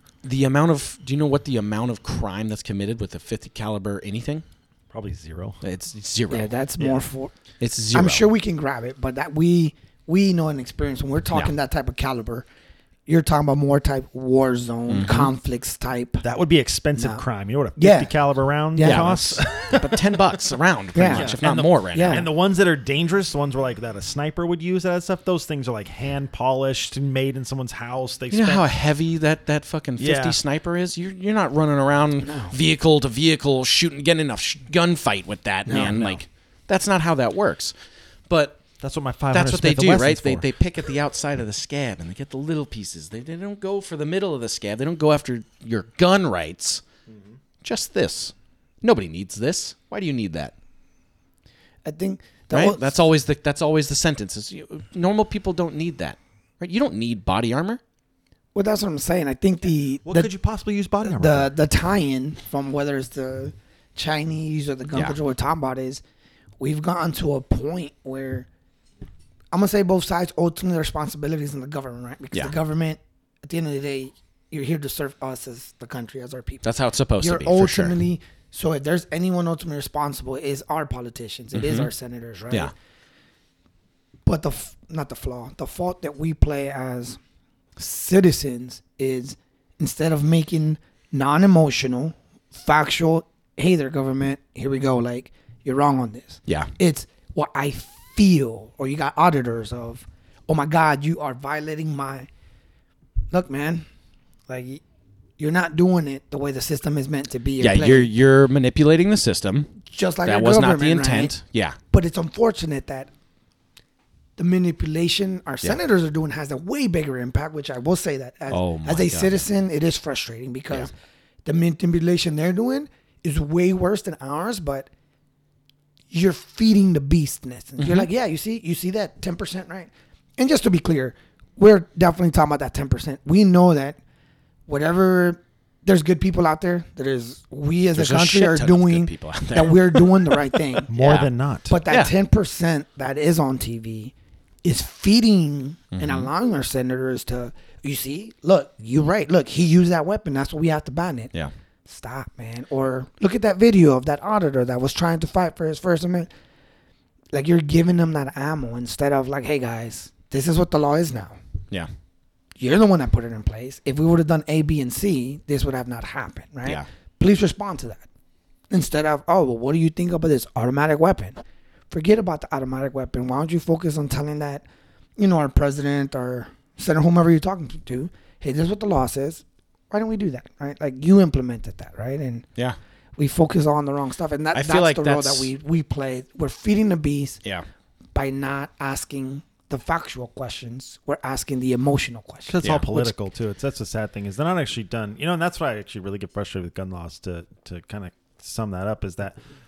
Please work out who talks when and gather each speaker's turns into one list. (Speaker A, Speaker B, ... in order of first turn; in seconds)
Speaker A: 0.2-4.4, 5.6-6.5, 7.6-8.2, 14.9-15.3, 18.8-22.2, 28.3-37.7, 38.3-38.6, 39.3-46.8, 47.6-50.5, 52.5-57.8, 76.6-77.9, 81.5-81.9, 107.6-109.7, 110.2-111.8, 118.5-119.4, 127.8-128.1, 137.9-141.3, 145.9-146.3, 184.5-185.5, 192.6-193.0
Speaker B: 4.9-5.6, 16.2-20.2, 21.1-28.6, 30.0-30.4, 35.7-36.2, 38.8-40.5, 60.0-61.5, 140.9-141.8, 192.4-199.4
Speaker C: 6.3-7.3, 7.9-12.4, 13.1-16.2, 17.0-17.2, 17.8-18.1, 18.7-19.1, 20.9-21.3, 21.9-22.3, 32.2-32.5, 35.7-36.0, 51.8-52.9, 58.5-60.3, 61.0-66.0, 66.6-68.5, 69.5-76.6, 77.2-82.7, 84.2-87.2, 87.8-102.3, 103.3-103.8, 104.5-104.8, 105.4-108.1, 109.8-111.3, 111.9-113.1, 114.4-120.9, 121.4-124.9, 126.1-134.0, 134.7-140.9, 141.7-151.3, 151.8-156.3, 157.3-161.4, 162.6-168.0, 168.7-171.4, 171.9-174.6, 175.2-182.4, 183.2-187.4, 188.1-192.5